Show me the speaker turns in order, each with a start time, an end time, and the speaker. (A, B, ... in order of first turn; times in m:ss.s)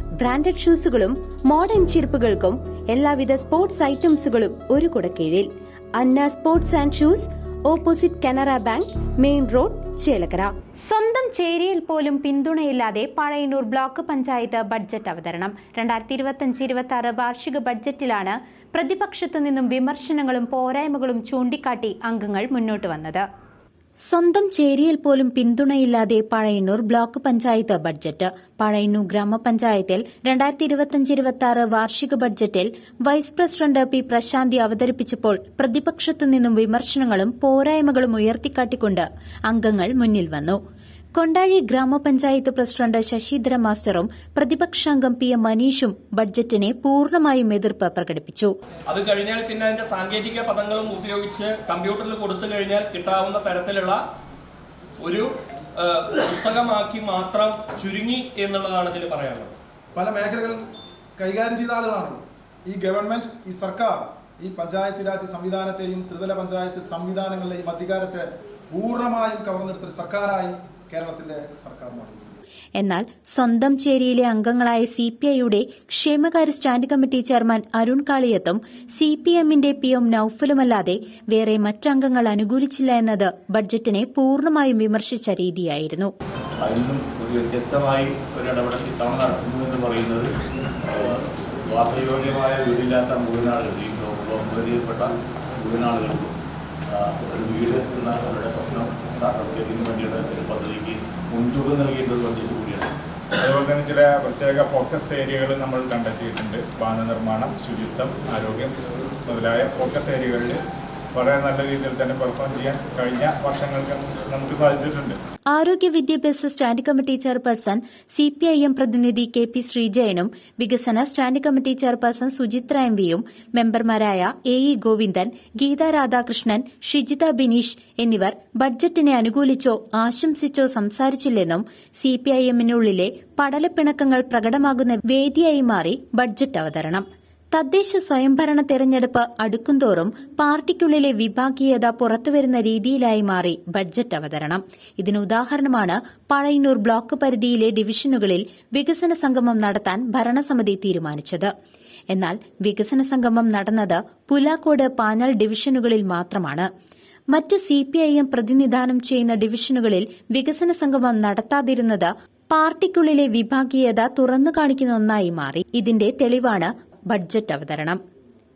0:00.2-0:23.2 A
0:24.1-0:40.6 A
0:41.2-0:48.5 A
0:48.9-0:54.0 B
0:55.0-0:59.5 B
0:59.9-1:00.6 C
1:01.2-1:12.4 C
1:12.8-1:26.1 A
1:26.6-1:30.3 D
1:30.8-1:42.9 D
1:43.4-1:48.7 E
1:49.2-1:50.6 E
1:51.1-1:55.2 E
1:55.5-2:31.5 A
2:32.1-2:36.7 A
2:37.3-2:48.0 A